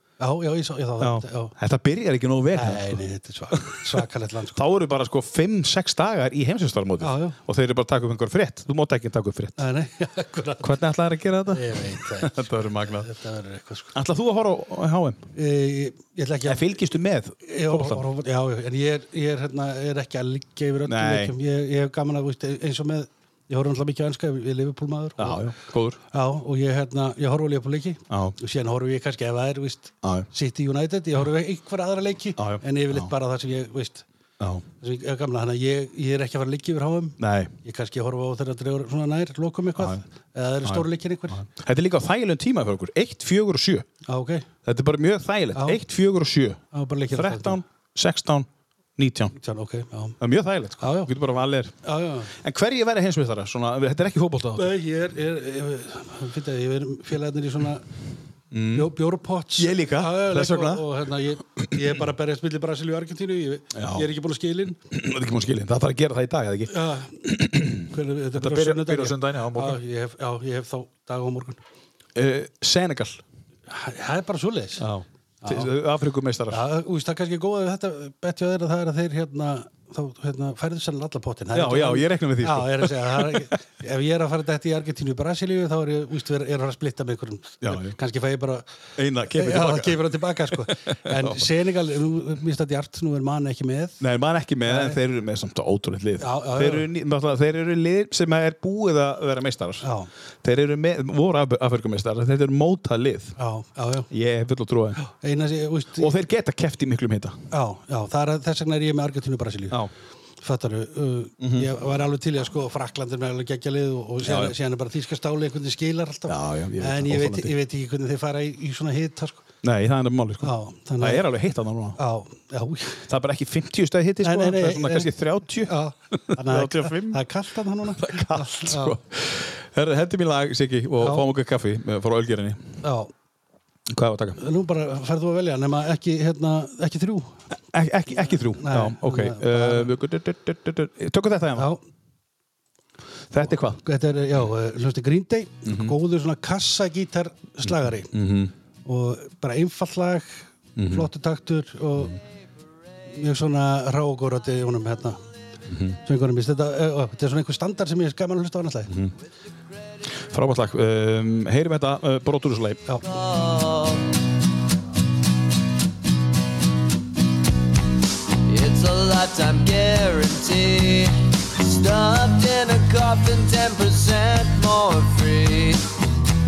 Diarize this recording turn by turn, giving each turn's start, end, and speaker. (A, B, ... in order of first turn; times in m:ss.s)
0:00.2-0:01.5 A
0:01.0-0:03.0 B
0:02.5-0:04.6 A
0:03.6-0:04.0 B
0:04.5-0:09.6 B
0:07.0-0:07.4 A
0:09.6-0:10.8 A
0:10.6-0:13.1 B
0:11.5-0:13.9 A
0:13.9-0:15.2 B
0:15.4-0:16.8 A
0:16.4-0:18.0 B
0:17.4-0:25.4 A
0:20.8-0:21.3 B
0:25.2-0:26.0 B
0:26.1-0:34.0 A
0:28.1-0:28.4 B
0:32.4-0:33.1 B
0:34.4-0:34.6 B
0:34.8-0:41.4 A
0:37.2-0:37.5 B
0:39.8-0:40.0 B
0:40.6-0:43.9 B
0:44.1-0:44.4 A
0:44.6-0:49.3 B
0:45.5-0:45.8 A
0:46.7-0:47.6 A
0:49.4-0:50.2 A
0:50.2-0:51.7 B
0:50.8-0:51.1 A
0:51.8-0:52.3 A
0:52.3-0:54.7 B
0:54.6-0:57.8 A
0:58.5-0:58.9 B
0:58.7-1:04.8 A
0:59.6-1:00.9 B
1:03.7-1:04.0 B
1:04.9-1:09.8 B
1:06.7-1:11.6 A
1:12.1-1:13.2 B
1:13.7-1:14.8 A
1:14.8-1:16.6 B
1:15.4-1:15.7 A
1:16.5-1:28.6 A
1:21.5-1:23.5 B
1:27.6-1:27.9 B
1:29.0-1:31.5 B
1:29.3-1:34.0 A
1:34.0-1:39.9 B
1:34.6-1:35.0 A
1:36.2-1:36.9 A
1:39.8-1:40.1 A
1:40.4-1:43.3 B
1:43.4-1:44.1 A
1:44.1-1:45.0 B
1:45.0-1:46.2 A
1:46.0-1:47.4 B
1:47.5-1:49.8 A
1:50.4-1:59.4 A
1:51.4-1:51.7 B
1:54.2-1:54.6 B
1:56.3-1:57.5 B
1:59.6-2:02.0 B
2:00.4-2:01.2 A
2:02.0-2:03.0 A
2:03.1-2:07.2 B
2:04.2-2:05.1 A
2:05.6-2:09.0 A
2:08.0-2:12.8 B
2:11.0-2:11.3 A
2:12.8-2:13.1 A
2:13.9-2:14.4 B
2:14.4-2:17.4 A
2:17.7-2:21.7 B
2:18.5-2:19.9 A
2:21.6-2:21.8 A
2:23.3-2:23.8 B
2:23.8-2:28.1 A
2:25.6-2:26.0 B
2:27.6-2:28.5 B
2:28.8-2:32.2 A
2:30.8-2:31.1 B
2:33.1-2:35.2 A
2:35.7-2:36.0 B
2:36.0-2:38.9 A
2:40.1-2:42.8 B
2:43.0-2:44.1 C
2:48.4-2:55.9 C